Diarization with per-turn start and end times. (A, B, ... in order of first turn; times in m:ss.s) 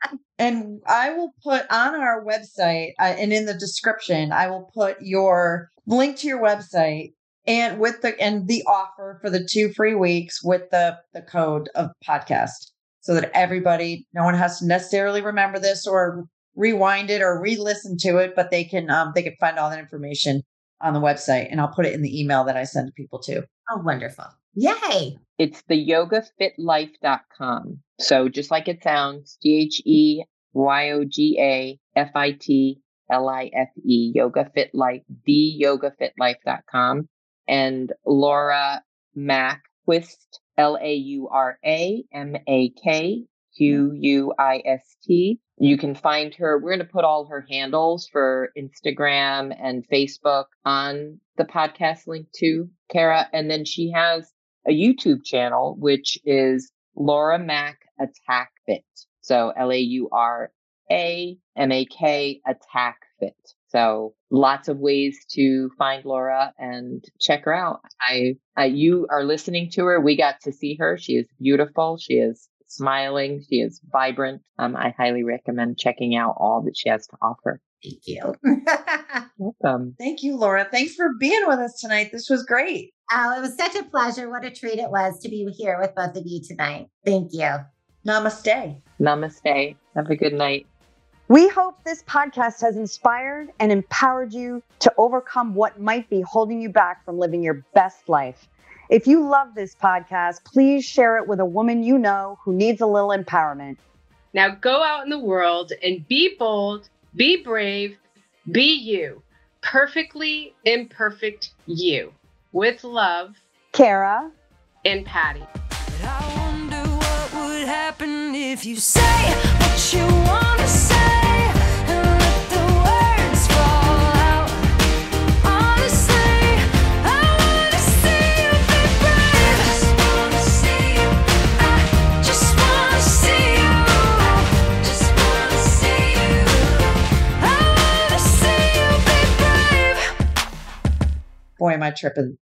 0:00.4-0:23.4 A
0:23.7-0:25.2 B
0:25.4-1:17.6 C
1:17.8-1:19.2 B
1:19.4-1:20.0 C
1:20.0-1:22.9 A
1:23.1-1:27.6 B
1:28.0-1:28.8 A
1:29.0-1:30.7 C
1:31.3-1:43.8 D
1:44.3-1:53.4 E
1:53.7-1:54.3 D
1:54.8-1:55.5 E
1:55.9-2:04.6 F
2:05.4-2:20.0 F
2:21.6-2:22.4 A